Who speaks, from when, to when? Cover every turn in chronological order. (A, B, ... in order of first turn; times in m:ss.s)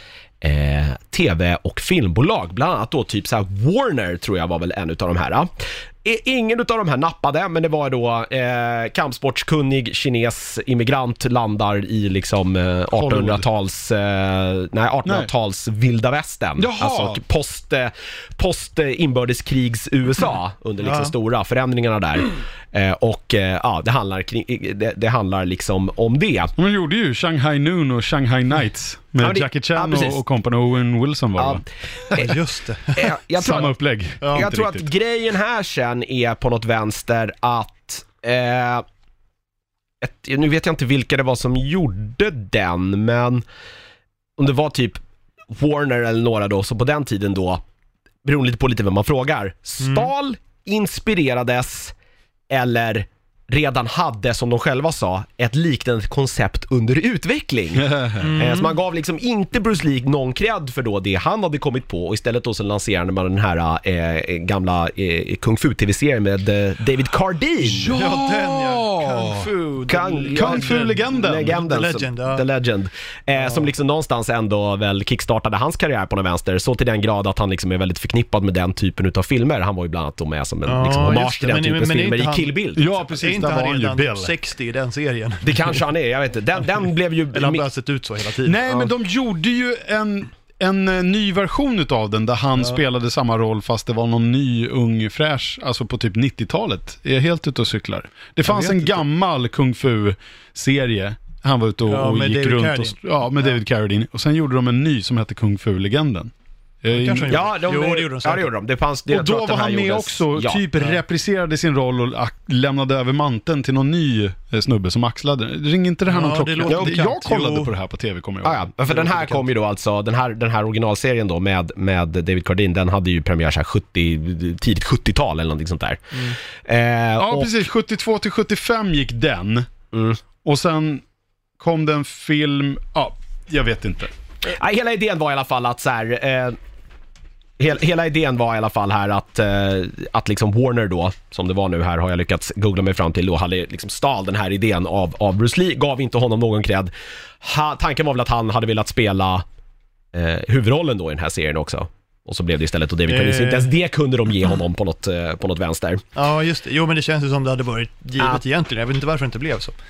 0:00.4-0:26.5 A
0:12.9-0:13.4 B
0:16.6-0:17.2 B
0:20.8-0:21.1 C
0:26.6-0:32.3 B
0:29.2-0:30.2 A
0:31.4-0:31.6 A
0:32.1-0:33.1 C
0:32.9-0:33.7 A
0:33.4-0:34.9 B
0:34.2-0:34.5 C
0:34.3-0:38.8 A
0:40.0-0:43.4 A
0:44.4-0:47.6 A
0:48.2-0:51.9 A
0:49.8-0:50.1 C
0:52.5-1:07.9 A
0:57.9-0:58.2 B
0:58.2-0:58.8 C
1:07.6-1:09.4 B
1:07.9-1:12.4 C
1:09.9-1:22.9 A
1:10.3-1:11.6 B
1:13.4-1:13.7 C
1:20.6-1:22.5 C
1:22.8-1:24.3 B
1:23.1-1:25.8 C
1:25.4-1:27.6 A
1:27.3-1:28.6 C
1:28.4-1:46.3 B
1:38.4-1:39.0 C
1:41.9-1:43.6 C
1:46.8-1:47.4 B
1:46.9-1:48.5 C
1:47.3-1:50.6 A
1:49.1-1:59.4 B
1:56.1-1:57.7 C
1:56.7-1:56.9 A
1:58.4-2:07.6 A
2:07.2-2:09.7 B
2:09.9-2:10.2 A
2:10.4-2:11.0 B
2:11.6-2:14.1 B
2:14.4-2:16.6 A
2:17.6-2:29.4 A
2:30.1-2:36.0 A
2:33.1-2:33.7 C
2:36.1-2:39.7 C